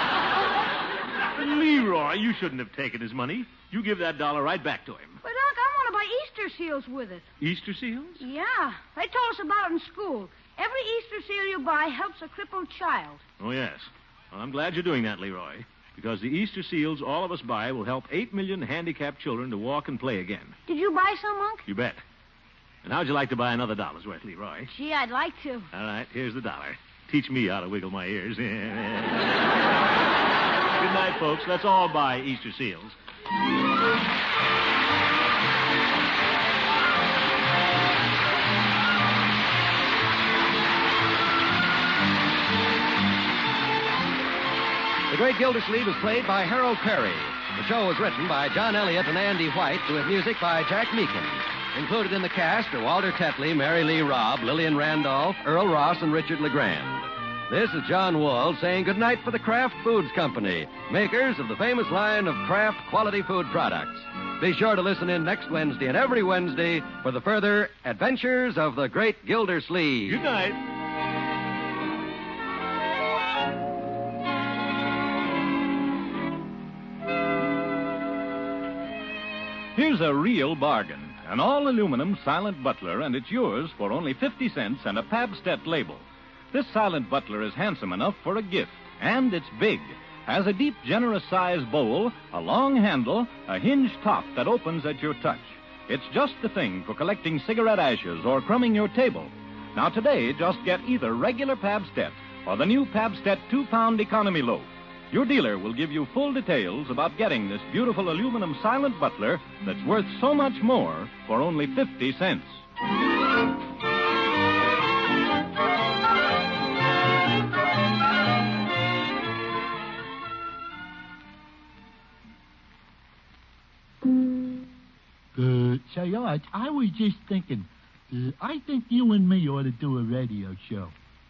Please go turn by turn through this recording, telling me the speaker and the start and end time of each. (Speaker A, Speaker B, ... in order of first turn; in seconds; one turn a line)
Speaker A: 1.4-5.2
Speaker B: 5.2-7.3
Speaker A: 7.4-8.2
Speaker B: 8.2-13.2
Speaker A: 13.4-20.6
Speaker B: 20.7-21.6
Speaker A: 21.7-22.0
Speaker A: 22.8-24.7
Speaker B: 24.7-25.7
Speaker A: 25.7-29.4
Speaker A: 30.8-33.0
Speaker C: 45.1-70.2
Speaker A: 70.1-70.6
Speaker D: 79.8-112.6
Speaker E: 125.3-130.9